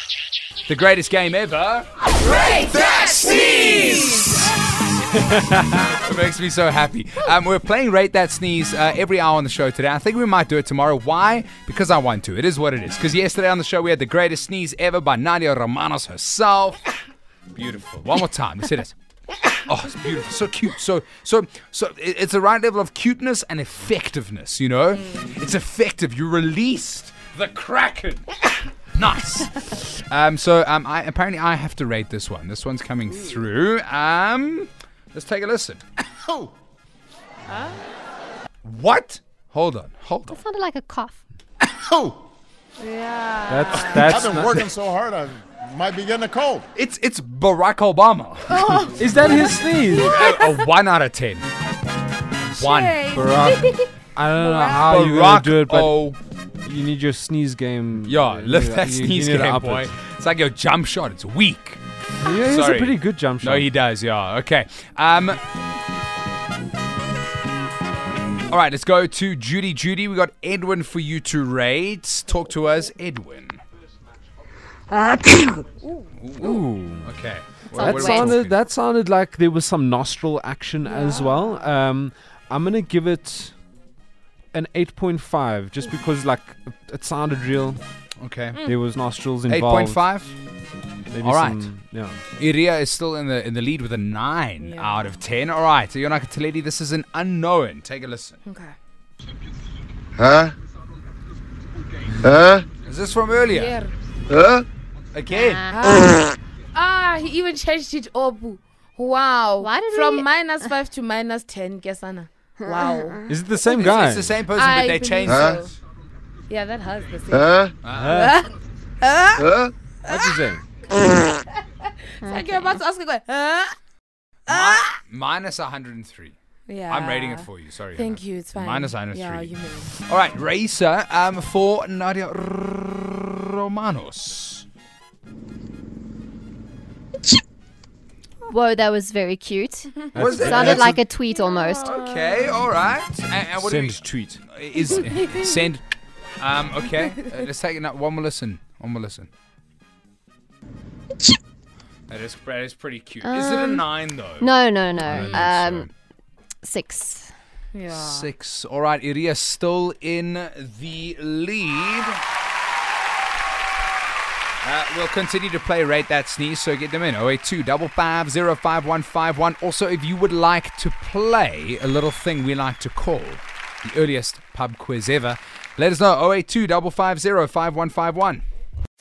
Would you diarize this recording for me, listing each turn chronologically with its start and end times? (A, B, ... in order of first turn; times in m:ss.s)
0:00.7-0:04.5 A
0:05.7-0:16.8 A
0:17.5-0:18.9 A
0:19.6-0:28.2 A
0:28.9-0:35.8 A
0:36.2-0:36.5 B
0:37.5-0:37.8 C
0:38.6-0:40.4 A
0:40.3-0:41.2 D
0:41.8-0:42.2 B
0:42.8-0:44.0 C
0:43.5-0:44.7 E
0:43.7-0:46.6 B
0:46.7-0:49.1 A
0:48.5-0:50.6 C
0:48.9-0:50.3 E
0:49.9-0:51.4 A
0:52.6-0:53.1 A
0:52.6-0:53.8 C
0:53.1-0:56.0 E
0:54.3-0:54.9 C
0:54.8-0:56.2 A
0:56.6-0:59.9 E
0:58.0-1:05.4 A
1:02.2-1:03.7 E
1:08.5-1:13.6 A
1:15.0-1:15.6 D
1:15.8-1:16.1 C
1:16.2-1:18.6 A
1:16.4-1:17.1 E
1:17.7-1:18.4 D
1:17.7-1:23.6 E
1:20.9-1:21.6 C
1:24.5-1:27.8 E
1:28.2-1:28.6 A
1:28.6-1:30.1 E
1:29.5-1:30.3 A
1:31.1-1:32.2 E
1:31.2-1:31.7 A
1:32.4-1:38.4 A
1:34.6-1:35.1 C
1:38.5-1:38.7 C
1:42.8-1:43.8 A
1:43.5-1:43.9 C
1:45.1-1:45.6 A
1:45.3-1:45.8 D
1:45.7-1:53.2 C
1:49.6-1:50.7 D
1:52.6-1:53.3 D
1:53.3-1:54.4 E
1:53.6-1:55.7 A
1:54.6-1:55.7 C
1:54.7-1:55.6 B
1:56.5-1:58.5 C
1:57.8-1:58.3 A
1:57.8-1:58.4 E
1:59.0-2:00.4 C
2:00.0-2:00.6 E
2:00.9-2:03.7 C
2:02.2-2:02.8 D
2:04.5-2:06.3 A
2:04.5-2:04.9 C
2:06.7-2:07.4 C
2:06.9-2:14.6 A
2:08.0-2:09.9 C
2:18.5-2:22.0 D
2:20.1-2:21.0 E
2:20.1-2:21.0 A
2:21.7-2:25.8 A
2:23.6-2:24.4 E
2:26.4-2:29.3 A
2:32.1-2:35.9 A
2:33.2-2:33.9 D
2:34.4-2:35.9 D
2:36.6-2:37.3 D
2:37.7-2:38.3 C
2:37.9-2:42.2 A
2:44.6-2:58.4 A